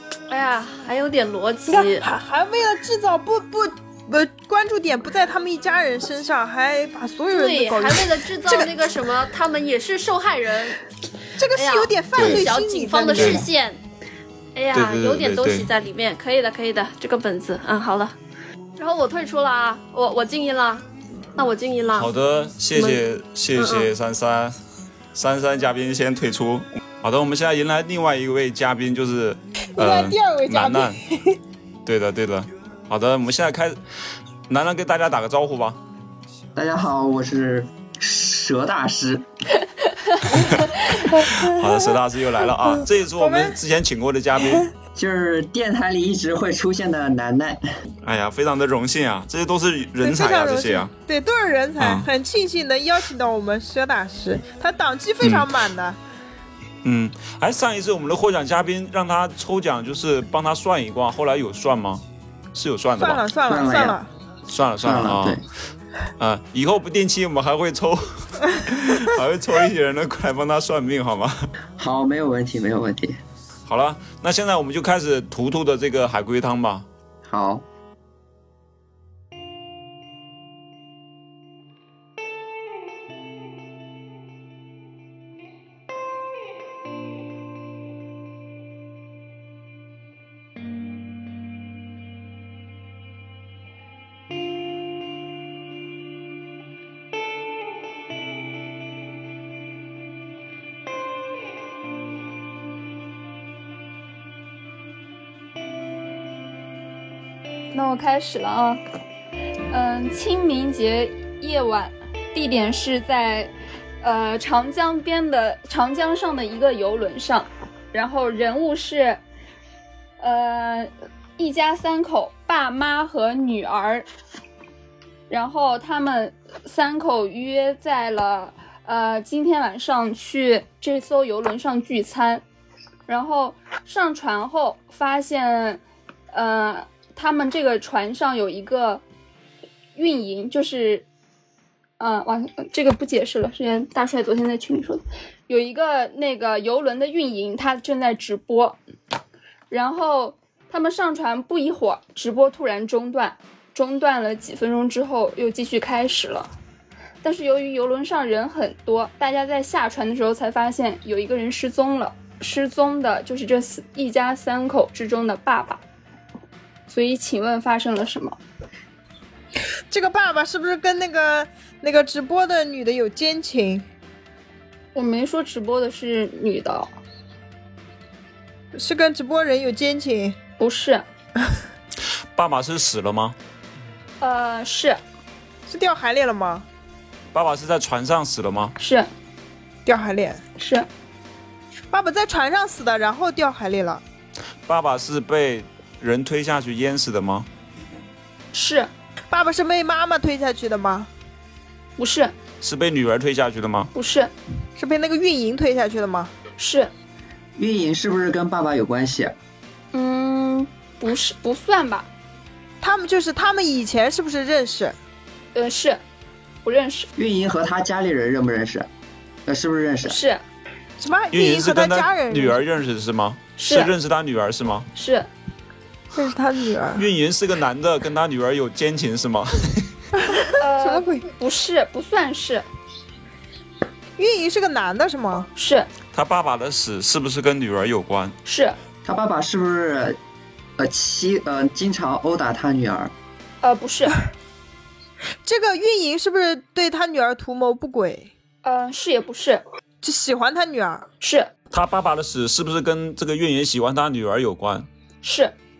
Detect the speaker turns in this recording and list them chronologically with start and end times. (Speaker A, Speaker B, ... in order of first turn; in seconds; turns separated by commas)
Speaker A: 0.3-2.1, Speaker B: 1.7-8.7, Speaker A: 7.3-10.8, Speaker B: 11.4-13.5, Speaker A: 11.5-13.8, Speaker C: 12.1-12.5, Speaker C: 13.1-13.5, Speaker A: 14.6-18.1, Speaker C: 14.7-15.7, Speaker A: 18.8-22.1, Speaker C: 21.9-24.6, Speaker A: 22.7-23.0, Speaker A: 23.6-23.9, Speaker C: 25.1-31.0, Speaker B: 29.8-31.4, Speaker C: 31.9-33.8, Speaker C: 34.5-35.8, Speaker D: 36.5-39.3, Speaker C: 40.3-44.7, Speaker B: 41.1-41.9, Speaker B: 43.2-43.6, Speaker D: 44.9-47.6, Speaker C: 48.0-50.9, Speaker B: 50.0-56.0, Speaker C: 51.8-52.1, Speaker C: 55.2-55.5, Speaker C: 56.8-63.2, Speaker B: 63.0-64.1, Speaker D: 63.5-64.0, Speaker C: 64.5-65.4, Speaker D: 64.8-65.4, Speaker C: 66.2-71.5, Speaker D: 71.8-73.2, Speaker C: 73.7-76.9, Speaker D: 77.2-77.6, Speaker E: 107.7-108.8, Speaker E: 109.7-113.5, Speaker E: 114.0-119.2, Speaker E: 120.2-124.0, Speaker E: 125.3-132.4, Speaker E: 133.1-135.8, Speaker E: 136.3-139.0, Speaker E: 139.9-141.1, Speaker E: 142.0-148.8, Speaker E: 149.7-156.5, Speaker E: 157.2-165.8, Speaker E: 166.9-168.4, Speaker B: 169.9-173.8, Speaker E: 174.9-176.9, Speaker B: 178.7-180.4, Speaker E: 180.6-181.0, Speaker C: 182.3-183.3, Speaker E: 184.2-185.0, Speaker B: 185.7-186.7, Speaker C: 187.3-188.7, Speaker E: 188.8-189.1, Speaker B: 189.8-190.4, Speaker E: 190.6-190.9, Speaker B: 191.9-194.0, Speaker C: 194.7-197.5, Speaker E: 198.5-198.9, Speaker B: 199.3-201.1, Speaker E: 202.0-202.3, Speaker C: 202.6-203.9, Speaker E: 203.9-204.3, Speaker B: 204.8-206.3, Speaker E: 206.6-206.9, Speaker D: 207.6-209.3, Speaker E: 209.9-212.1, Speaker B: 212.8-214.9, Speaker E: 215.5-216.0, Speaker E: 216.6-217.1, Speaker D: 217.2-218.9, Speaker D: 219.4-220.2, Speaker E: 220.0-220.4, Speaker B: 221.0-222.6, Speaker C: 221.3-224.9, Speaker E: 223.6-223.9, Speaker E: 224.9-225.3, Speaker B: 226.1-227.1, Speaker C: 226.9-229.9, Speaker B: 230.2-231.3, Speaker E: 230.6-232.6, Speaker B: 234.2-235.5, Speaker E: 235.5-235.9, Speaker C: 236.1-238.3, Speaker E: 238.4-238.8, Speaker D: 239.0-240.2, Speaker D: 240.8-243.1, Speaker E: 243.6-244.2, Speaker B: 245.4-248.3, Speaker E: 248.6-249.6, Speaker B: 250.0-251.1, Speaker E: 251.2-251.5, Speaker C: 251.7-254.9, Speaker E: 255.2-255.5